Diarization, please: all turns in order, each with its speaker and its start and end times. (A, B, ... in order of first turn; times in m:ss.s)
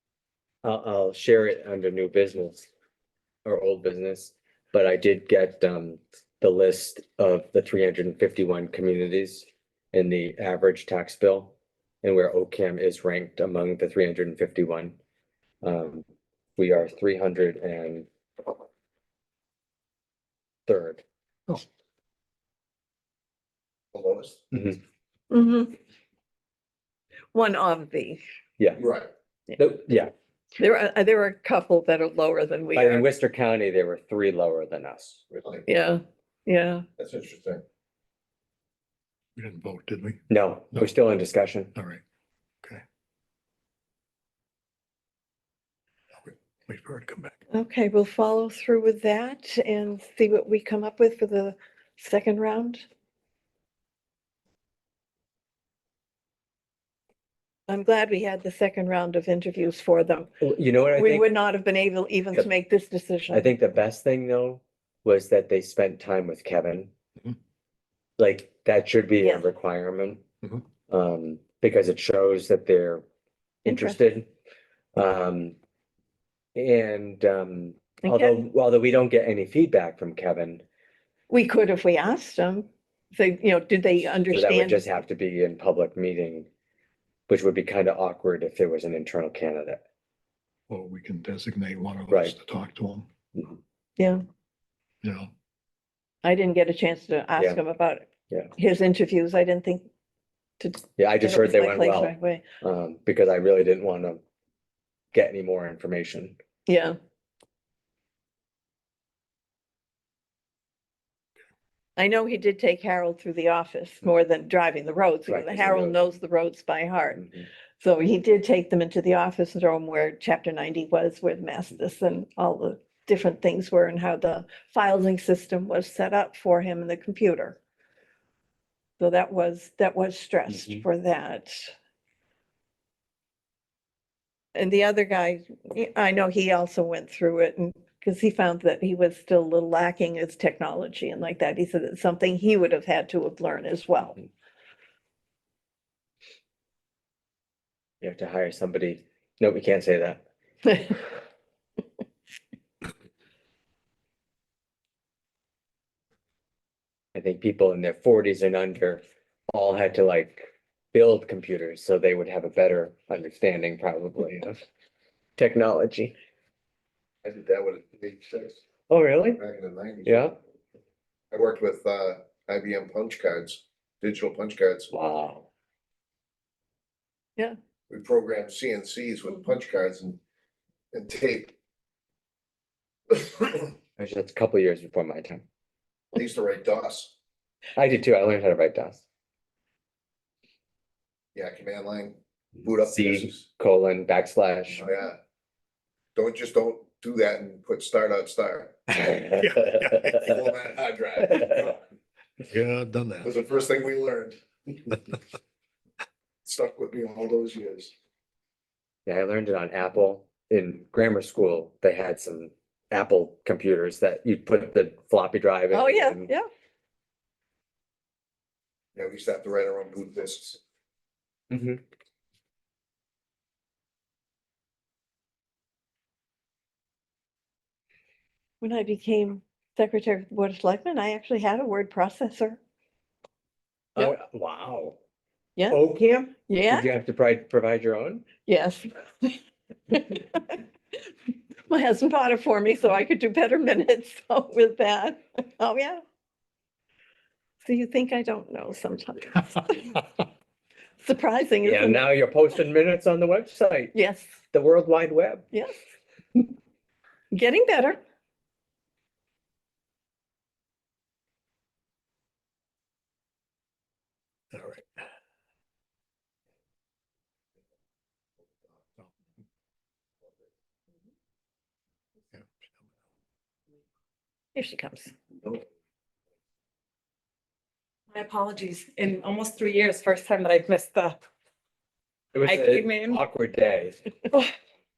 0:00.6-0:02.7 A
0:03.4-0:14.9 A
0:15.6-0:16.0 A
0:16.6-0:18.1 A
0:20.7-0:21.0 A
0:23.9-0:24.4 B
0:24.5-0:24.8 A
0:25.3-0:25.8 C
0:27.3-0:28.2 C
0:28.8-0:29.1 B
0:29.6-0:30.1 A
0:30.6-0:33.0 C
0:32.7-0:35.2 A
0:35.3-0:35.6 B
0:35.7-0:36.8 C
0:37.0-0:37.6 B
0:39.4-0:40.2 D
0:40.3-0:41.7 A
0:41.7-0:42.0 D
0:46.2-0:47.4 D
0:47.5-0:52.8 C
0:57.7-1:00.3 C
1:00.4-1:01.3 A
1:00.9-1:03.5 C
1:03.3-1:06.9 A
1:08.2-1:10.2 A
1:10.9-1:13.0 A
1:13.7-1:14.0 C
1:13.7-1:14.3 A
1:14.9-1:15.6 A
1:16.6-1:20.6 A
1:18.0-1:18.4 C
1:21.3-1:24.8 C
1:24.3-1:26.5 A
1:27.3-1:29.8 A
1:30.7-1:33.1 D
1:34.0-1:34.2 C
1:35.0-1:35.3 D
1:36.2-1:39.9 C
1:40.6-1:42.4 C
1:41.0-1:44.2 A
1:45.1-1:46.4 A
1:46.7-1:47.0 C
1:52.0-1:57.2 C
1:55.3-1:56.0 A
1:57.2-1:57.5 A
1:57.8-2:07.6 C
2:09.0-2:11.7 C
2:10.5-2:10.8 A
2:14.6-2:24.2 C
2:28.0-2:30.2 A
2:30.6-2:31.0 C
2:37.2-2:44.6 A
2:45.4-2:46.1 A
2:47.2-2:48.6 B
2:48.9-2:49.4 A
2:49.4-2:50.3 B
2:50.1-2:50.3 A
2:51.3-2:54.9 B
2:54.9-2:55.5 A
2:57.9-3:00.2 B
3:00.9-3:01.5 B
3:03.1-3:03.7 B
3:04.0-3:05.4 A
3:06.1-3:07.1 B
3:07.8-3:09.0 A
3:11.3-3:13.4 B
3:12.8-3:14.9 A
3:14.8-3:15.2 B
3:16.2-3:19.0 B
3:19.3-3:20.3 D
3:20.2-3:21.8 B
3:22.5-3:23.3 D
3:23.2-3:25.0 B
3:26.4-3:27.9 B
3:29.1-3:36.3 A
3:35.7-3:36.5 C
3:39.0-3:40.6 B
3:41.5-3:41.8 A
3:48.6-3:52.6 C
3:54.0-3:55.0 A
3:55.7-3:58.3 A
3:56.5-3:56.9 C
3:58.5-3:59.4 C
3:59.9-4:00.6 C
4:01.7-4:06.0 C
4:07.6-4:10.0 C
4:11.0-4:12.1 C
4:11.6-4:13.9 A
4:13.9-4:14.4 C
4:14.5-4:15.5 A
4:17.3-4:18.0 C
4:24.5-4:25.0 D
4:34.5-4:35.1 C
4:38.1-4:41.2 E
4:42.3-4:44.1 A
4:42.4-4:43.2 E